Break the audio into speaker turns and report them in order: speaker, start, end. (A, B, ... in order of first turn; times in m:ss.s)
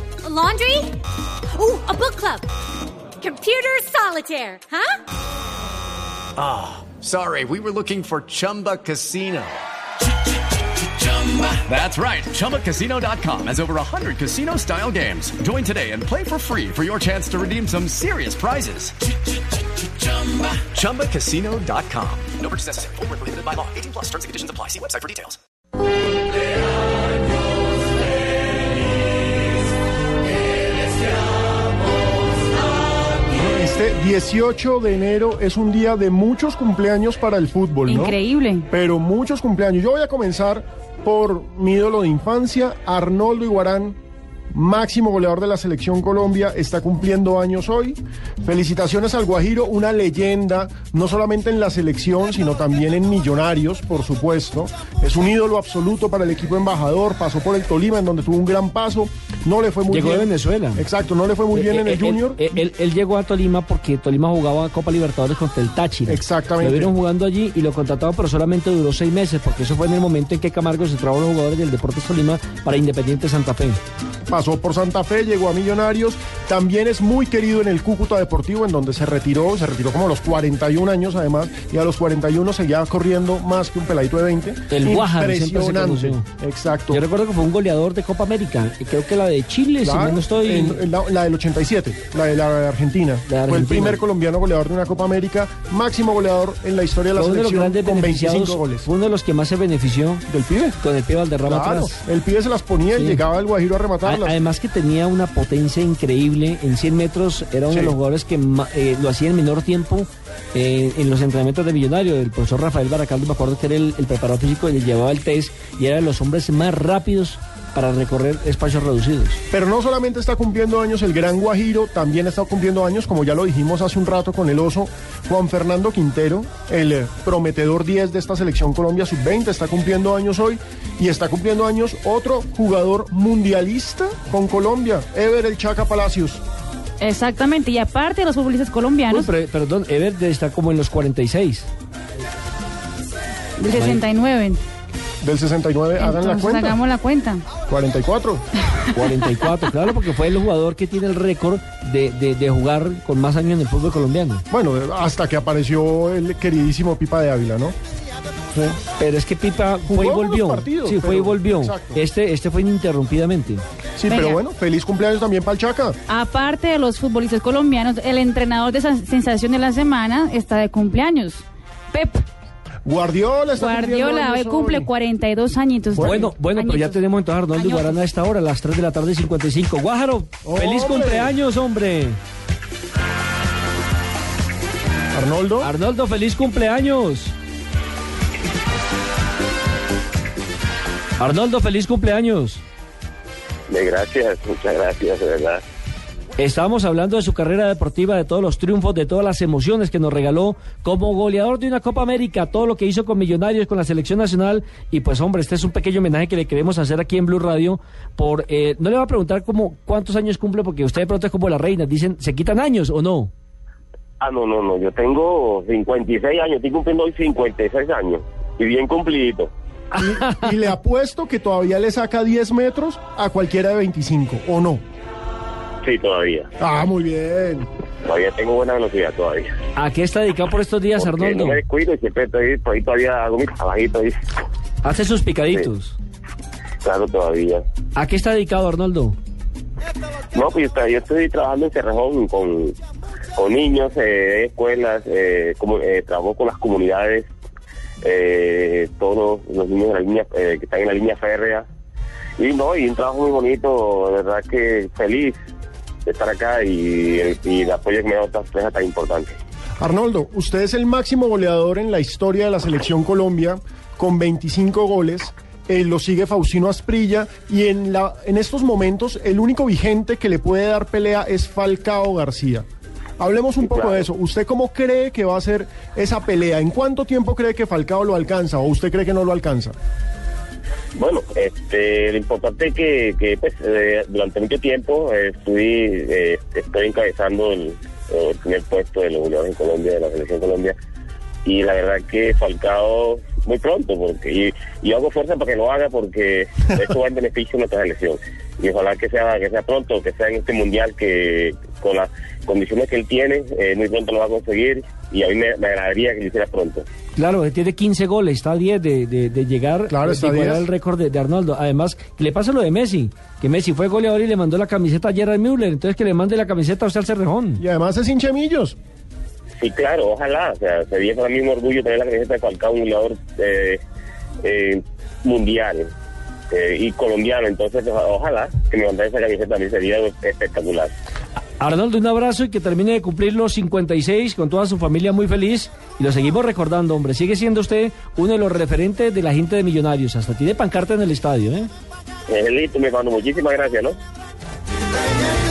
0:00.2-0:01.0 A
0:01.5-0:02.5 A
0:03.2-0:05.0 A
0:06.4-0:09.6 B
0:10.8-0:19.1 B
0:19.8-0:25.4 B
0:33.3-0:38.2 C
0:37.9-0:38.7 D
0:38.7-0:44.0 C
0:44.5-1:02.5 C
0:59.9-1:00.8 E
1:01.5-1:13.8 E
1:06.1-1:06.9 C
1:14.3-1:27.0 C
1:24.7-1:26.2 E
1:26.9-1:30.8 E
1:29.8-1:38.9 C
1:33.3-1:34.0 E
1:37.2-1:40.2 E
1:40.3-1:40.8 C
1:40.8-1:42.0 E
1:41.4-1:44.4 C
1:42.9-1:43.2 E
1:44.0-1:59.4 E
1:47.7-1:48.0 C
1:59.5-2:16.4 C
2:17.0-2:19.3 D
2:19.1-2:21.7 E
2:23.6-2:24.6 D
2:23.7-2:24.0 E
2:25.2-2:26.8 C
2:26.0-2:27.4 D
2:27.7-2:28.4 C
2:28.9-2:34.4 E
2:34.5-2:37.8 C
2:38.5-2:38.8 C
2:39.0-2:43.6 E
2:39.9-2:42.0 C
2:44.0-2:46.0 C
2:44.1-2:44.4 D
2:46.1-2:52.2 D
2:52.8-2:54.9 C
2:53.6-2:58.0 D
2:56.0-2:56.3 C
2:56.0-3:02.2 E
3:00.4-3:01.4 C
3:05.1-3:05.7 C
3:05.6-3:07.4 E
3:11.2-3:12.6 E
3:13.7-3:15.6 F
3:16.4-3:33.3 E
3:34.2-3:39.5 F
3:39.9-3:44.8 C
3:45.8-3:46.5 F
3:46.6-3:47.7 C
3:48.0-3:49.6 F
3:49.8-3:51.6 E
3:51.0-3:54.2 F
3:54.8-3:56.0 E
3:56.8-3:57.6 F
3:58.0-3:59.2 E
4:00.3-4:02.8 F
4:03.4-4:07.3 F
4:08.0-4:11.7 F
4:12.4-4:15.4 F
4:16.1-4:19.4 F
4:19.8-4:32.7 C
4:33.2-4:39.8 C
4:33.6-4:34.0 F
4:41.0-4:50.8 F
4:51.4-5:06.8 F
5:07.2-5:17.6 E
5:09.9-5:10.7 C
5:17.6-5:18.8 C
5:19.6-5:23.8 F
5:24.4-5:25.9 F
5:26.5-5:30.9 F
5:31.6-5:41.7 E
5:42.3-5:44.0 F